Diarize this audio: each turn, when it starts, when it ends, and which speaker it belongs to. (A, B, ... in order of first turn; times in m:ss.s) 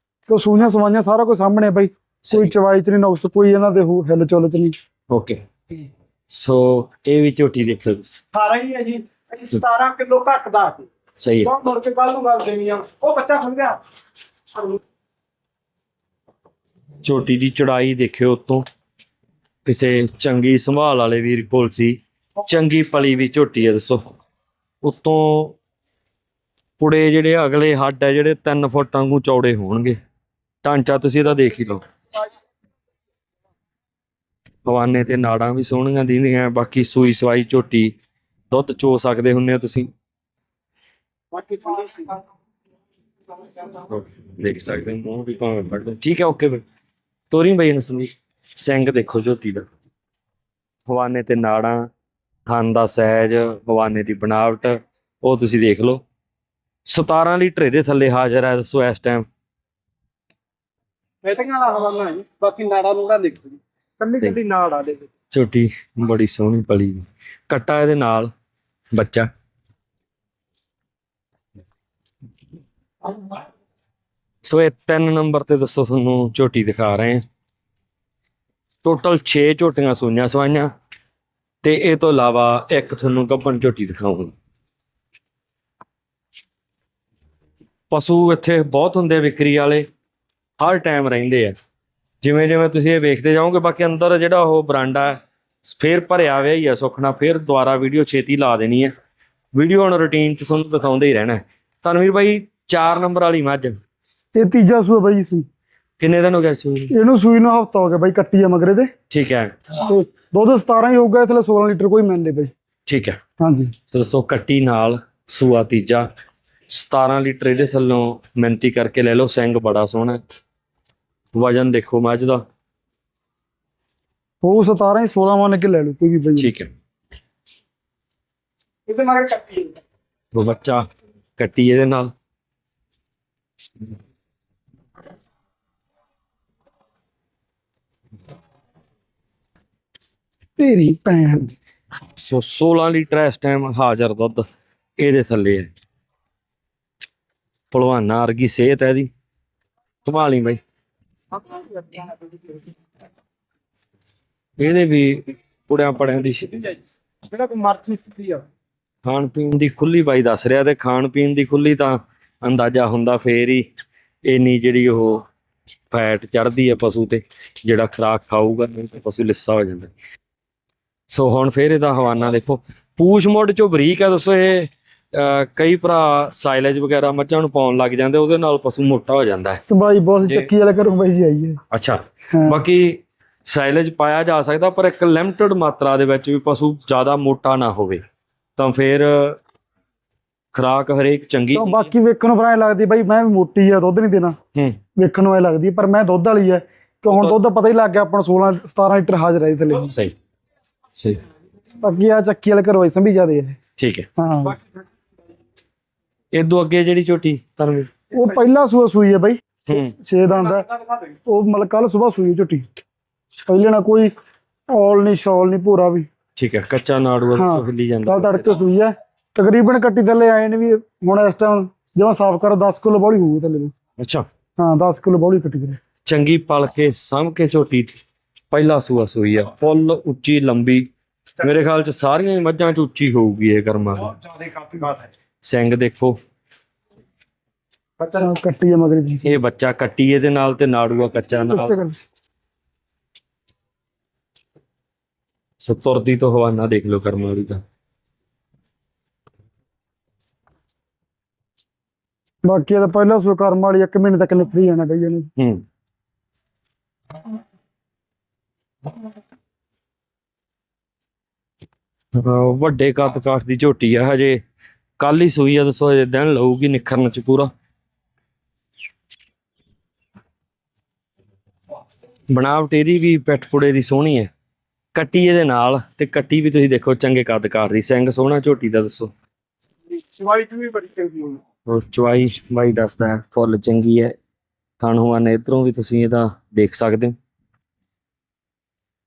0:00.3-0:04.7 A
0:02.2-0:02.5 B
0:05.1-0:05.4 B
0:06.3-0:08.1 B
0:08.3-0:10.8 C
0:11.2-0:11.5 B
0:11.5-0:13.8 C
0:17.0-0:18.6 B
0:19.6-0:24.0 B
0:24.8-0:25.6 B
0:26.8-0:30.0 B
0:30.6-0:31.8 B
0:34.6-0:37.9 B
0:38.5-0:39.9 B
0:41.4-0:42.1 C
0:43.6-0:46.6 B
0:47.3-0:49.7 B
0:50.9-0:51.9 B
0:52.4-0:56.0 B
0:56.8-0:59.3 B
1:01.2-1:05.0 C
1:05.3-1:08.3 B
1:08.9-1:09.3 B
1:14.4-1:17.2 B
1:18.8-1:20.7 B
1:21.6-1:24.3 B
1:27.9-1:29.8 B
1:30.6-1:31.5 B
1:32.2-1:38.9 B
1:39.5-1:43.8 B
1:44.3-1:45.4 A
1:46.0-1:46.9 B
1:46.9-1:48.9 A
1:49.1-1:49.6 B
1:49.8-1:52.5 A
1:52.8-1:53.2 B
1:53.4-1:53.7 A
1:53.9-1:56.0 B
1:56.7-2:00.2 B
2:01.3-2:02.4 B
2:04.4-2:06.5 A
2:06.4-2:06.7 B
2:08.9-2:09.7 C
2:10.3-2:10.8 B
2:11.4-2:12.1 B
2:20.6-2:21.6 A
2:22.2-2:24.4 B
2:25.0-2:25.7 B
2:27.7-2:29.1 B
2:30.0-2:30.6 B
2:31.4-2:32.6 C
2:34.6-2:36.6 B
2:37.3-2:38.4 C
2:39.0-2:43.6 B
2:44.2-2:45.2 B
2:45.9-2:49.9 B
2:51.1-2:59.6 B
2:59.6-3:01.6 A
3:01.7-3:08.0 B
3:02.3-3:02.6 A
3:08.6-3:09.4 B
3:10.5-3:11.9 B
3:11.5-3:14.4 A
3:15.0-3:19.9 A
3:17.1-3:17.4 B
3:19.8-3:20.1 B
3:21.8-3:23.6 A
3:23.8-3:24.1 B
3:24.2-3:24.6 A
3:26.3-3:27.9 B
3:28.1-3:32.7 A
3:29.7-3:29.9 B
3:33.5-3:34.1 A
3:34.7-3:36.0 A
3:36.4-3:38.5 B
3:37.4-3:43.7 A
3:44.0-3:44.2 B
3:44.6-3:45.8 A
3:46.0-3:48.0 B
3:48.5-3:50.9 B
3:51.4-3:54.2 B
3:55.4-3:56.2 B
3:58.0-3:59.3 A
3:59.2-4:01.8 B
4:01.5-4:02.0 A
4:05.6-4:07.6 B
4:12.4-4:15.3 A
4:15.4-4:15.6 B
4:22.1-4:24.4 B
4:25.0-4:27.5 B
4:32.3-4:34.3 B
4:34.9-4:39.1 B
4:40.0-4:41.4 C
4:41.6-4:44.1 B
4:44.8-4:47.2 B